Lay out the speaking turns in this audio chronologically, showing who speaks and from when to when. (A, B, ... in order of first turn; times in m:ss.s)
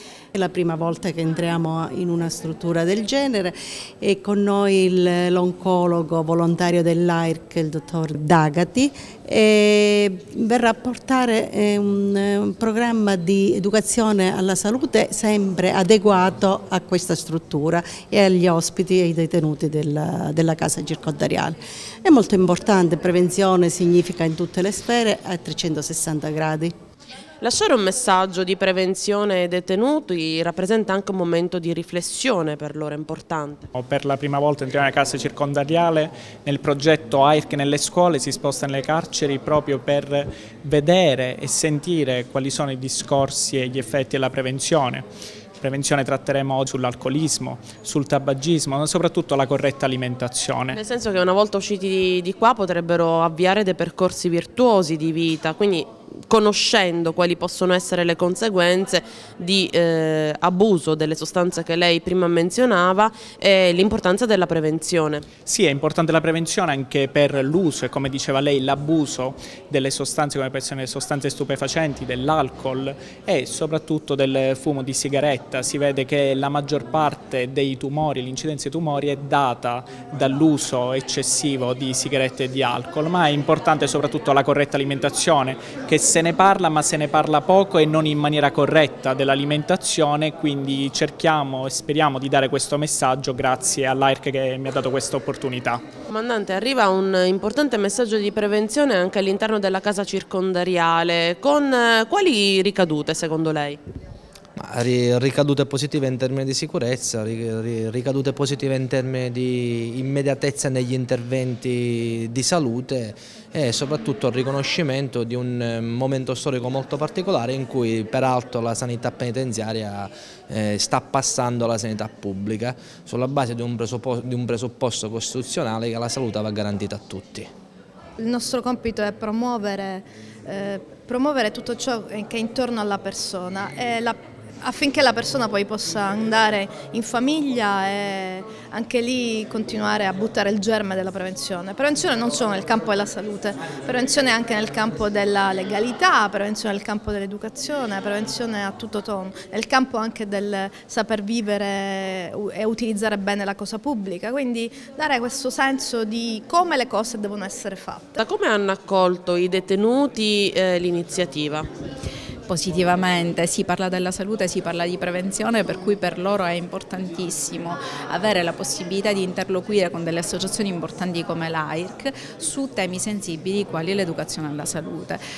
0:00.3-0:26.7 A
0:27.4-0:33.7 B
0:33.7-0:45.0 C
0:45.6-0:50.8 C
0:50.7-1:05.2 B
1:05.4-1:35.8 C
1:36.1-1:43.8 B
1:44.6-2:07.5 D
2:08.2-2:38.2 E
2:38.2-2:41.7 B
2:42.5-2:55.2 F